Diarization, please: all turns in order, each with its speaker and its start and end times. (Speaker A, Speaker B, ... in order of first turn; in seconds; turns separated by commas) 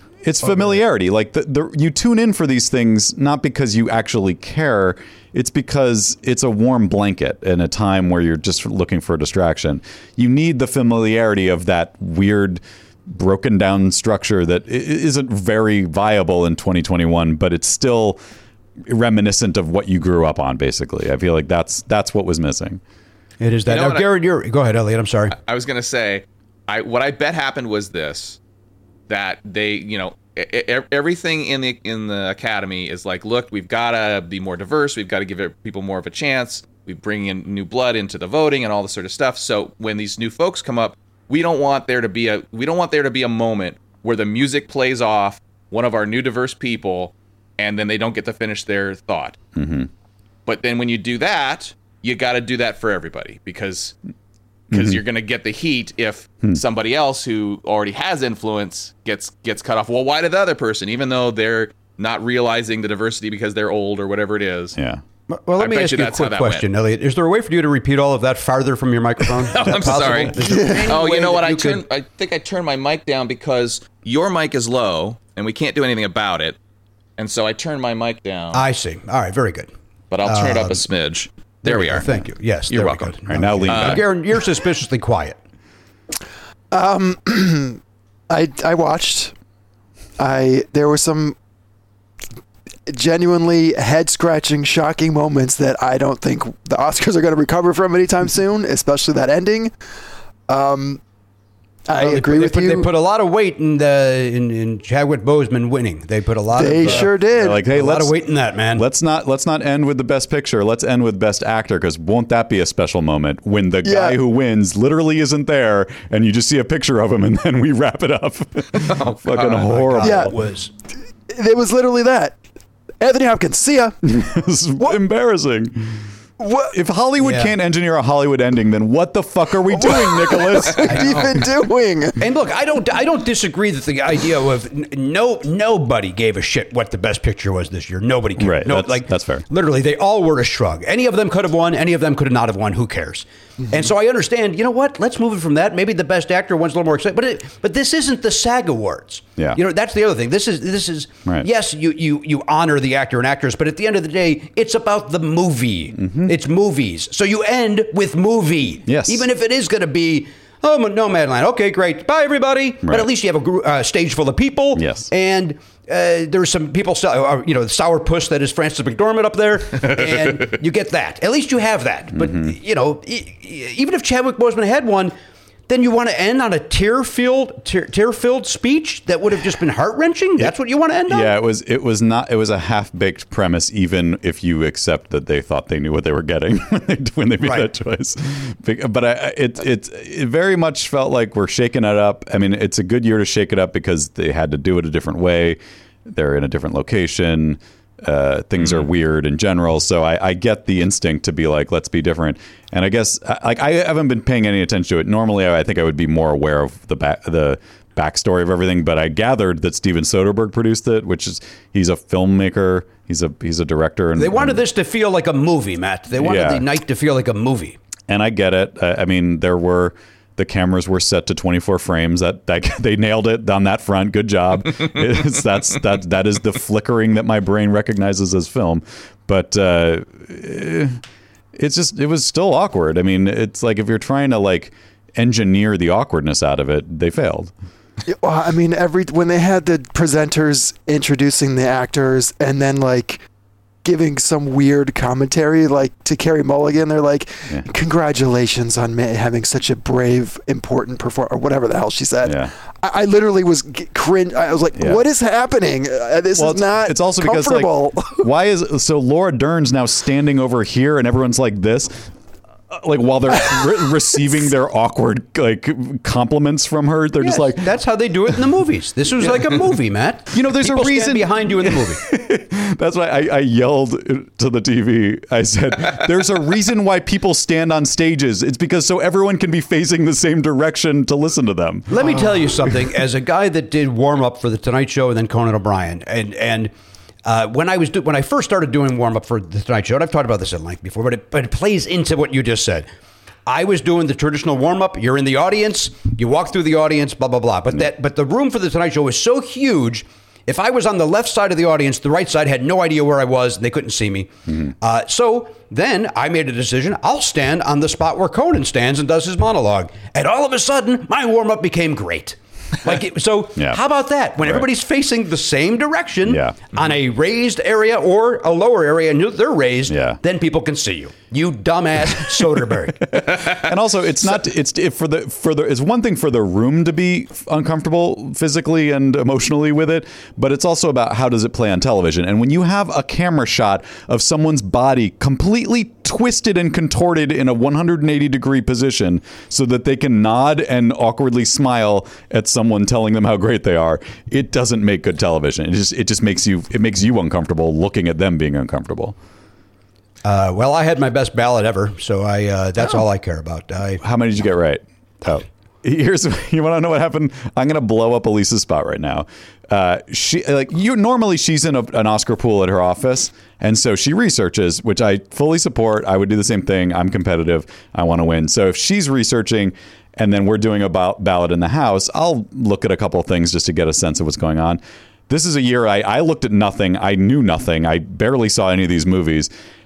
Speaker A: 0.2-18.2, Speaker A: 18.9-22.8, Speaker B: 23.4-25.4, Speaker C: 23.7-24.1, Speaker C: 25.3-28.4, Speaker C: 29.1-49.4, Speaker A: 49.5-49.9, Speaker C: 50.5-53.9, Speaker C: 54.7-64.8, Speaker A: 54.7-55.0, Speaker A: 64.7-65.0, Speaker B: 65.3-71.8, Speaker C: 65.6-66.7, Speaker C: 69.5-76.6, Speaker D: 70.4-70.9, Speaker C: 77.2-78.6, Speaker B: 78.5-79.7, Speaker C: 80.1-82.0, Speaker B: 80.2-80.8, Speaker B: 81.6-85.4, Speaker C: 82.7-83.1, Speaker A: 83.3-84.0, Speaker C: 83.7-84.0, Speaker D: 86.7-89.3, Speaker D: 90.2-91.4, Speaker D: 92.9-99.7, Speaker D: 100.5-101.0, Speaker D: 101.9-102.9, Speaker B: 102.0-108.8, Speaker D: 106.5-107.6, Speaker A: 106.8-108.2, Speaker A: 108.7-120.3, Speaker D: 113.8-114.2, Speaker C: 118.8-119.7, Speaker B: 119.7-120.7, Speaker D: 120.0-120.3, Speaker D: 121.3-122.4, Speaker D: 123.0-124.0, Speaker A: 124.0-126.0, Speaker D: 126.4-126.7, Speaker A: 126.7-131.2, Speaker B: 127.2-127.5, Speaker D: 129.7-132.2, Speaker B: 130.9-131.3, Speaker B: 132.2-175.1, Speaker A: 138.4-139.5, Speaker A: 156.0-156.3, Speaker A: 158.9-159.3, Speaker A: 164.8-165.1, Speaker A: 172.2-172.5, Speaker B: 175.7-181.4, Speaker A: 181.1-214.6, Speaker B: 187.4-187.7, Speaker B: 214.2-217.8, Speaker A: 216.2-216.7, Speaker A: 218.1-231.0, Speaker A: 231.6-237.5, Speaker D: 238.1-243.2, Speaker D: 243.8-258.3, Speaker A: 252.2-252.5, Speaker A: 254.8-255.0, Speaker A: 256.4-262.1, Speaker A: 262.7-267.7, Speaker B: 267.2-272.0, Speaker A: 269.3-269.5, Speaker A: 270.3-282.5, Speaker B: 281.9-286.7, Speaker B: 287.2-292.9, Speaker B: 293.5-323.2, Speaker A: 314.4-314.7, Speaker A: 316.2-316.6, Speaker A: 319.9-320.2, Speaker A: 323.1-349.1, Speaker B: 350.2-354.0, Speaker A: 354.0-379.5